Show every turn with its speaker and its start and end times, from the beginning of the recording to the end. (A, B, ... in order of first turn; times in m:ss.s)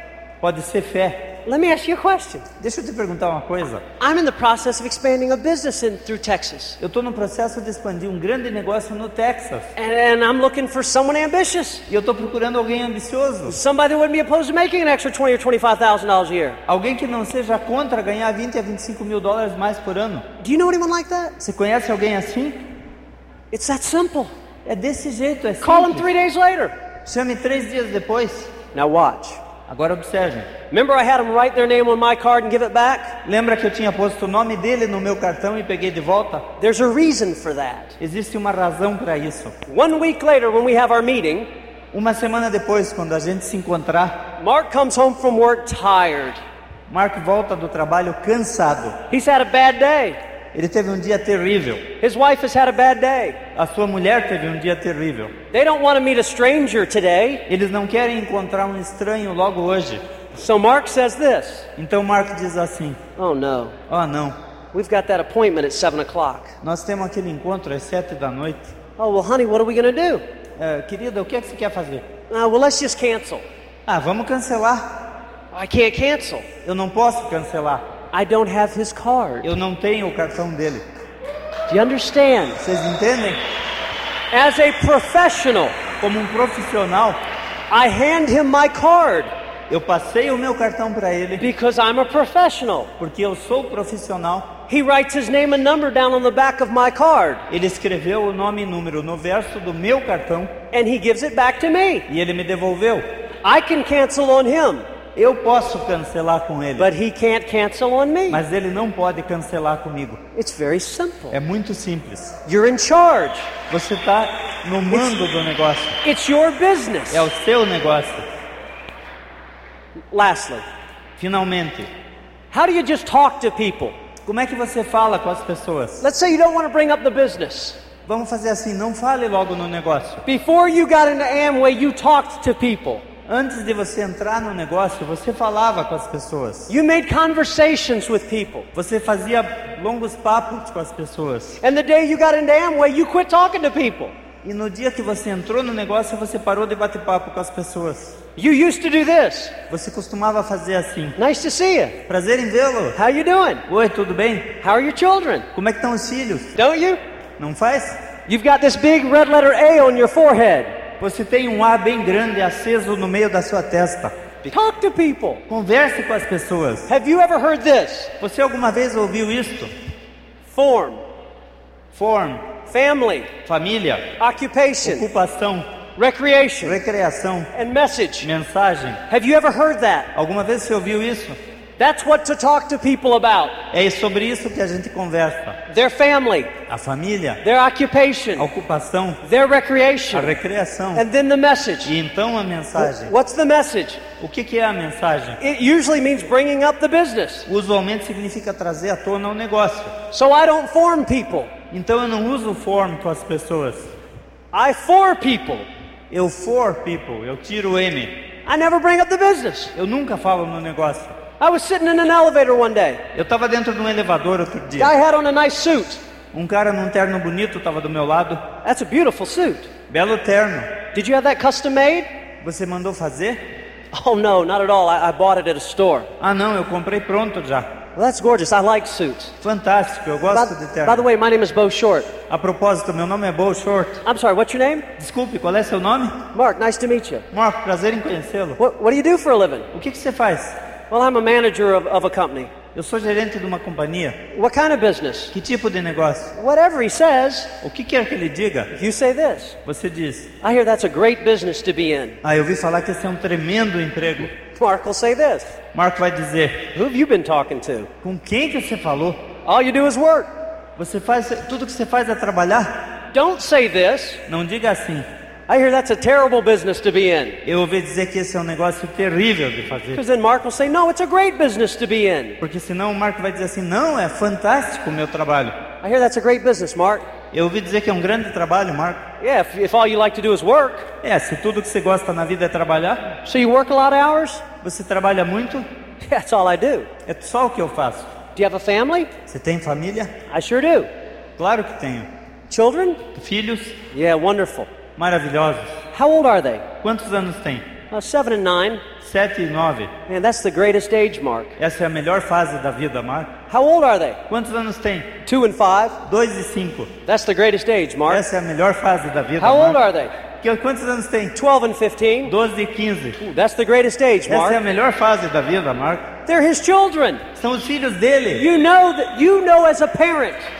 0:00.4-0:01.4 A
0:01.4-0:02.4 B
0:02.6-0:03.8 A
0:04.0-0:06.8 B
0:06.8-0:09.7 A
0:09.8-0:11.8 B
0:11.9-0:13.6 A
0:13.5-0:16.6 B
0:16.7-0:20.2 A
0:20.4-0:21.4 B
0:21.4-0:22.6 A
0:23.5-0:24.3 B
0:24.6-0:26.1 A
0:25.6-0:26.7 B
0:27.0-0:28.5 A
0:28.7-0:29.4 B
0:29.7-0:30.5 A
0:30.7-0:33.2 B
0:33.2-0:36.4 A
0:36.6-0:37.9 B
0:38.0-0:39.5 A
0:39.7-0:41.5 B
0:41.9-0:44.3 A
0:44.4-0:46.4 B
0:46.9-0:49.0 A
0:49.1-0:50.2 B
0:50.5-0:51.9 A
0:52.0-0:53.4 B
0:53.5-0:55.3 A
0:55.5-0:57.4 B
0:57.5-1:00.0 A
1:00.3-1:01.7 B
1:01.8-1:03.0 A
1:03.2-1:03.8 B
1:03.9-1:04.3 A
1:04.7-1:06.5 B
1:06.6-1:08.7 A
1:09.0-1:10.2 B
1:10.6-1:12.1 A
1:12.3-1:13.4 B
1:13.8-1:15.0 A
1:15.5-1:16.5 B
1:16.6-1:17.8 A
1:18.1-1:19.5 B
1:19.4-1:20.8 A
1:21.7-1:22.6 B
1:22.6-1:23.4 A
1:24.3-1:25.8 B
1:26.0-1:27.2 A
1:27.7-1:29.3 B
1:29.7-1:31.4 A
1:31.4-1:32.9 B
1:33.0-1:34.6 A
1:34.7-1:37.4 B
1:37.5-1:40.5 A
1:40.7-1:42.1 B
1:42.1-1:43.0 A
1:43.4-1:44.8 B
1:45.2-1:46.9 A
1:46.8-1:48.4 B
1:48.3-1:50.2 A
1:50.3-1:51.4 B
1:51.3-1:52.3 A
1:52.4-1:53.5 B
1:53.7-1:56.0 A
1:56.0-1:57.3 B
1:57.1-1:58.2 A
2:00.1-2:00.6 B
2:01.2-2:01.9 A
2:02.5-2:03.9 B
2:04.2-2:06.0 A
2:06.0-2:07.8 B
2:08.0-2:10.2 A
2:10.2-2:13.0 B
2:13.3-2:16.7 A
2:16.7-2:18.7 B
2:18.7-2:21.6 A
2:21.6-2:24.1 B
2:24.4-2:28.2 A
2:28.4-2:29.6 B
2:29.7-2:31.2 A
2:31.2-2:32.0 B
2:32.1-2:33.0 A
2:33.0-2:33.6 B
2:33.7-2:34.6 A
2:34.6-2:35.5 B
2:35.5-2:36.6 A
2:36.6-2:37.0 B
2:37.4-2:38.0 A
2:38.3-2:40.8 B
2:41.0-2:44.1 A
2:44.4-2:45.4 B
2:45.5-2:46.9 A
2:46.9-2:48.1 B
2:48.2-2:49.7 A
2:50.5-2:51.0 B
2:51.9-2:52.5 A
2:52.6-2:53.3 B
2:53.4-2:54.2 A
2:54.2-2:55.1 B
2:54.8-2:55.7 A
2:56.0-2:56.8 B
2:56.6-2:57.5 A
2:57.5-2:58.3 B
2:58.2-2:59.0 A
2:59.1-3:00.1 B
3:00.1-3:01.4 A
3:01.8-3:03.6 B
3:03.7-3:05.6 A
3:05.7-3:06.5 B
3:06.7-3:07.4 A
3:07.4-3:08.5 B
3:08.4-3:09.2 A
3:09.2-3:10.3 B
3:10.1-3:11.0 A
3:10.9-3:11.9 B
3:11.8-3:13.1 A
3:12.8-3:14.0 B
3:14.2-3:15.4 A
3:15.4-3:17.4 B
3:17.5-3:20.0 A
3:20.1-3:21.5 B
3:21.7-3:23.9 A
3:24.5-3:25.6 B
3:26.1-3:28.2 A
3:28.4-3:29.7 B
3:29.7-3:31.2 A
3:31.4-3:33.0 B
3:33.1-3:34.9 A
3:34.8-3:36.0 B
3:36.3-3:38.4 A
3:38.6-3:39.7 B
3:39.9-3:40.8 A
3:40.9-3:42.1 B
3:42.4-3:43.4 A
3:43.9-3:46.1 B
3:46.2-3:47.7 A
3:48.0-3:49.3 B
3:49.4-3:51.0 A
3:50.3-3:52.1 B
3:52.3-3:54.0 A
3:54.0-3:54.9 B
3:55.0-3:56.2 A
3:56.3-3:57.2 B
3:57.3-3:58.6 A
3:58.6-3:59.7 B
3:59.7-4:00.6 A
4:00.9-4:02.5 B
4:02.7-4:04.2 A
4:04.3-4:05.3 B
4:05.3-4:06.3 A
4:06.4-4:07.6 B
4:07.6-4:08.7 A
4:08.7-4:09.6 B
4:09.6-4:10.3 A
4:10.4-4:12.2 B
4:12.2-4:14.3 A
4:14.4-4:15.6 B
4:15.7-4:16.7 A
4:16.7-4:17.9 B
4:18.0-4:19.2 A
4:19.4-4:20.3 B
4:20.8-4:22.8 A
4:23.1-4:24.2 B
4:24.3-4:25.0 A
4:25.5-4:27.4 B
4:27.4-4:30.0 A
4:29.9-4:32.4 B
4:32.4-4:35.6 A
4:35.8-4:37.0 B
4:37.3-4:39.0 A
4:39.2-4:40.9 B
4:41.0-4:43.2 A
4:43.2-4:44.4 B
4:44.6-4:45.6 A
4:46.0-4:46.9 B
4:47.0-4:48.1 A
4:48.3-4:49.1 B
4:49.2-4:50.1 A
4:50.3-4:50.9 B
4:51.4-4:52.1 A
4:52.5-4:53.0 B
4:53.1-4:53.8 A
4:53.9-4:54.7 B
4:55.0-4:55.8 A
4:55.9-4:56.7 B
4:56.8-4:57.7 A
4:57.9-4:58.8 B
4:59.0-4:59.9 A
5:00.1-5:01.5 B
5:01.6-5:03.4 A
5:03.5-5:04.2 B
5:04.3-5:05.2 A
5:05.2-5:06.0 B
5:06.0-5:06.9 A
5:07.0-5:08.2 B
5:08.1-5:09.8 A
5:09.4-5:10.1 B
5:10.3-5:11.4 A
5:11.4-5:12.3 B
5:12.2-5:13.2 A
5:13.2-5:14.6 B
5:14.3-5:16.1 A
5:16.2-5:17.2 B
5:17.3-5:18.5 A
5:18.4-5:20.5 B